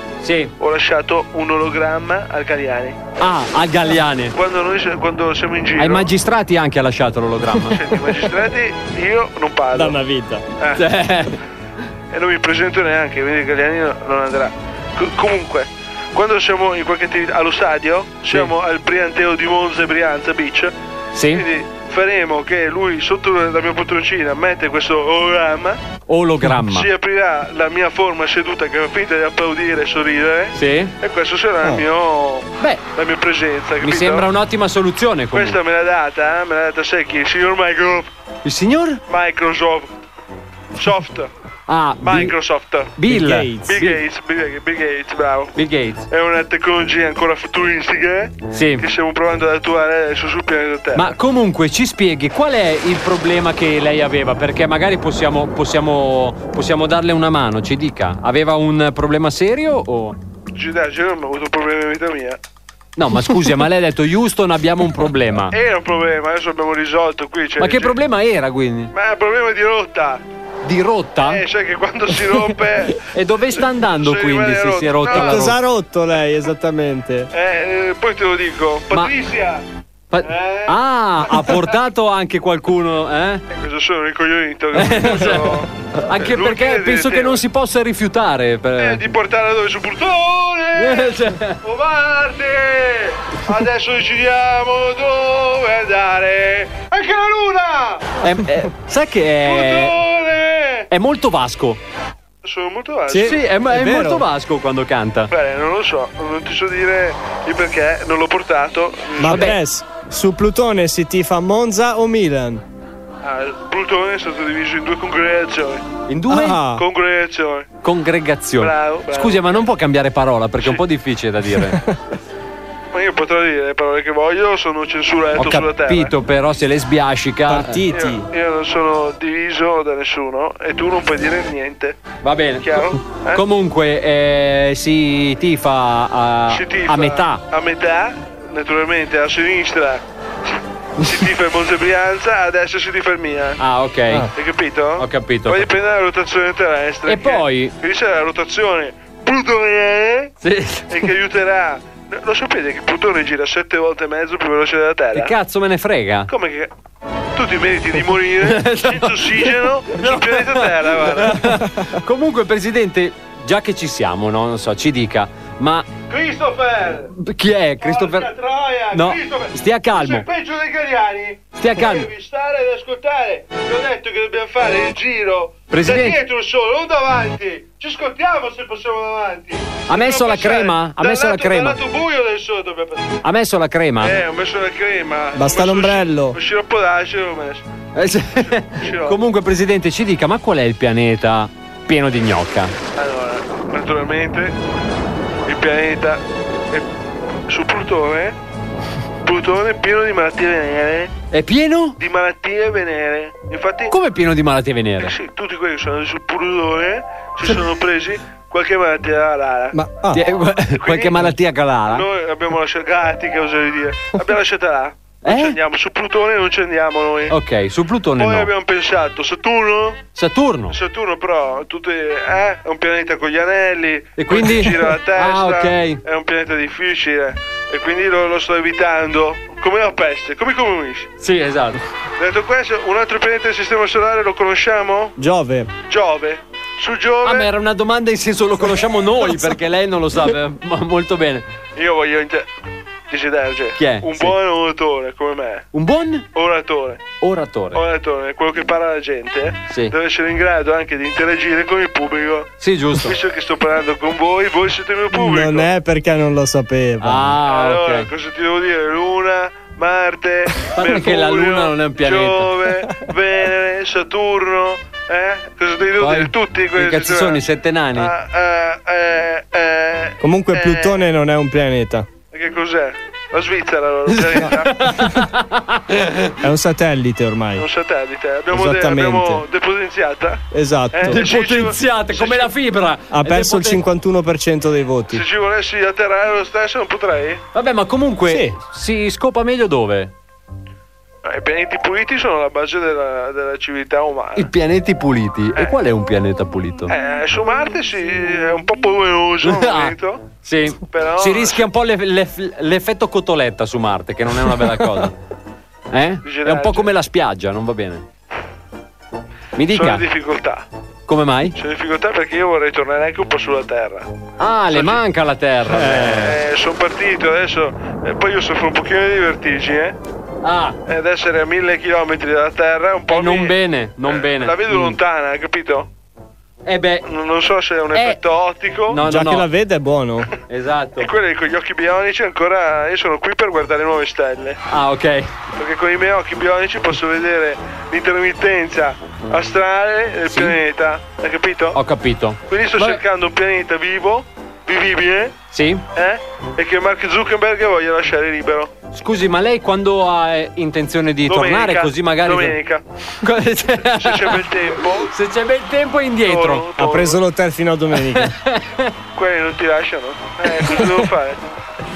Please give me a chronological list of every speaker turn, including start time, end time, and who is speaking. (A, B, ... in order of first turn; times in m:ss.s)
0:00.2-0:00.5 A
0:00.6-0:03.0 B
0:03.2-0:04.4 A
0:04.4-0:06.1 B
0:05.8-0:07.8 A
0:07.6-0:10.0 B
0:09.7-0:10.4 C
0:10.6-0:10.9 B
0:10.8-0:11.4 A
0:12.1-0:20.7 B
0:18.3-0:18.5 A
0:21.1-0:21.5 A
0:21.3-0:25.8 B
0:26.1-0:26.9 A
0:26.6-0:34.3 B
0:30.6-0:30.9 A
0:33.8-0:35.6 A
0:35.3-0:38.1 B
0:38.4-0:39.0 A
0:39.1-0:40.0 B
0:40.8-0:41.3 B
0:41.7-0:42.4 A
0:42.0-0:42.9 B
0:43.0-0:44.0 A
0:43.1-0:43.8 C
0:43.7-0:45.5 B
0:45.6-0:46.1 A
0:46.1-0:51.2 B
0:48.5-0:48.9 A
0:50.9-1:00.2 A
1:00.6-1:02.4 B
1:03.0-1:05.6 A
1:05.5-1:08.0 B
1:07.6-1:08.9 A
1:08.9-1:10.2 B
1:10.6-1:11.5 A
1:11.2-1:15.5 B
1:13.1-1:15.6 A
1:15.1-1:17.3 C
1:17.3-1:19.6 B
1:20.1-1:23.4 A
1:20.2-1:20.8 B
1:23.6-1:27.4 B
1:24.7-1:29.0 A
1:28.8-1:38.1 B
1:30.8-1:31.6 A
1:38.2-1:40.0 A
1:39.4-1:40.9 B
1:40.9-1:41.8 A
1:42.4-1:43.4 B
1:43.1-1:44.2 C
1:43.1-1:45.3 A
1:45.3-1:49.5 B
1:49.2-1:52.6 C
1:49.2-1:49.6 A
1:53.2-1:55.8 B
1:56.1-1:56.6 A
1:56.3-1:56.8 C
1:56.7-1:57.7 B
1:57.8-2:01.8 A
1:58.6-1:59.7 B
2:02.9-2:06.1 B
2:05.4-2:07.9 A
2:07.5-2:08.3 C
2:07.9-2:12.0 B
2:12.2-2:17.4 A
2:12.6-2:13.4 B
2:16.5-2:20.0 B
2:21.0-2:23.6 B
2:23.6-2:24.3 A
2:24.3-2:30.3 B
2:25.0-2:25.7 A
2:27.1-2:27.8 A
2:30.4-2:31.1 A
2:30.9-2:35.3 B
2:35.1-2:36.3 A
2:36.3-2:36.7 B
2:37.4-2:41.4 B
2:38.4-2:45.9 A
2:46.1-2:47.1 B
2:47.2-2:48.3 A
2:47.8-3:03.2 B
2:48.9-2:50.3 A
2:51.6-2:52.1 A
2:55.7-2:56.2 A
2:59.9-3:01.8 A
3:03.2-3:04.2 A
3:04.0-3:07.6 B
3:05.4-3:06.4 C
3:08.0-3:12.7 A
3:08.4-3:09.2 B
3:13.0-3:14.6 B
3:15.5-3:16.9 B
3:17.5-3:18.4 B
3:19.2-3:21.1 B
3:21.3-3:22.0 A
3:22.0-3:24.0 B
3:23.9-3:25.2 A
3:25.0-3:29.8 B
3:29.7-3:30.2 C
3:30.1-3:32.1 A
3:30.8-3:31.4 B
3:31.9-3:37.4 B
3:35.2-3:35.6 A
3:37.3-3:38.5 A
3:38.2-3:40.0 B
3:40.2-3:40.8 A
3:40.7-3:51.1 B
3:44.2-3:46.0 A
3:51.2-3:51.8 A
3:52.2-3:55.2 B
3:55.2-3:55.7 C
3:55.9-3:57.5 B
3:57.2-4:01.5 A
4:01.8-4:02.5 B
4:03.1-4:05.7 B
4:03.8-4:04.4 A
4:05.7-4:06.3 A
4:06.4-4:07.0 B
4:07.2-4:07.8 A
4:07.7-4:15.7 B
4:12.6-4:13.2 A
4:15.1-4:17.3 C
4:17.0-4:18.1 A
4:17.4-4:31.0 B
4:20.7-4:22.6 A
4:26.0-4:28.1 A
4:30.2-4:32.1 C
4:32.3-4:34.9 B
4:34.1-4:36.3 A
4:36.4-4:37.6 C
4:37.6-4:40.4 B
4:38.5-4:39.4 C
4:40.5-4:41.2 C
4:40.9-4:42.5 B
4:41.1-4:43.8 A
4:43.1-4:45.2 C
4:45.1-4:47.4 B
4:47.5-4:50.1 A
4:51.2-4:54.5 B
4:54.4-4:56.9 A
4:56.9-5:00.2 B
4:59.4-5:05.2 A
5:00.9-5:01.7 B
5:05.9-5:08.0 A
5:06.2-5:06.9 B
5:09.6-5:10.1 A
5:09.7-5:10.6 B
5:11.1-5:11.6 A
5:11.6-5:14.1 B
5:14.4-5:16.4 A
5:14.7-5:15.0 B
5:15.7-5:16.2 C
5:16.0-5:20.0 B
5:20.4-5:20.8 A
5:20.9-5:25.9 B
5:23.1-5:25.0 A
5:26.6-5:27.0 A
5:27.1-5:29.0 B
5:27.9-5:28.2 A
5:28.9-5:29.5 A
5:29.0-5:30.3 C
5:30.5-5:31.1 A
5:31.0-5:34.6 B
5:34.7-5:35.3 A
5:35.6-5:41.8 B
5:40.3-5:40.6 A
5:41.7-5:43.0 A
5:42.5-5:45.4 B
5:45.5-5:45.8 A
5:46.0-5:48.7 B
5:48.9-5:52.6 A
5:51.3-5:52.8 B
5:53.2-5:56.7 A
5:53.8-5:55.1 B
5:56.2-5:57.2 B
5:56.8-5:58.3 C
5:58.1-5:58.9 A
5:59.2-6:01.4 B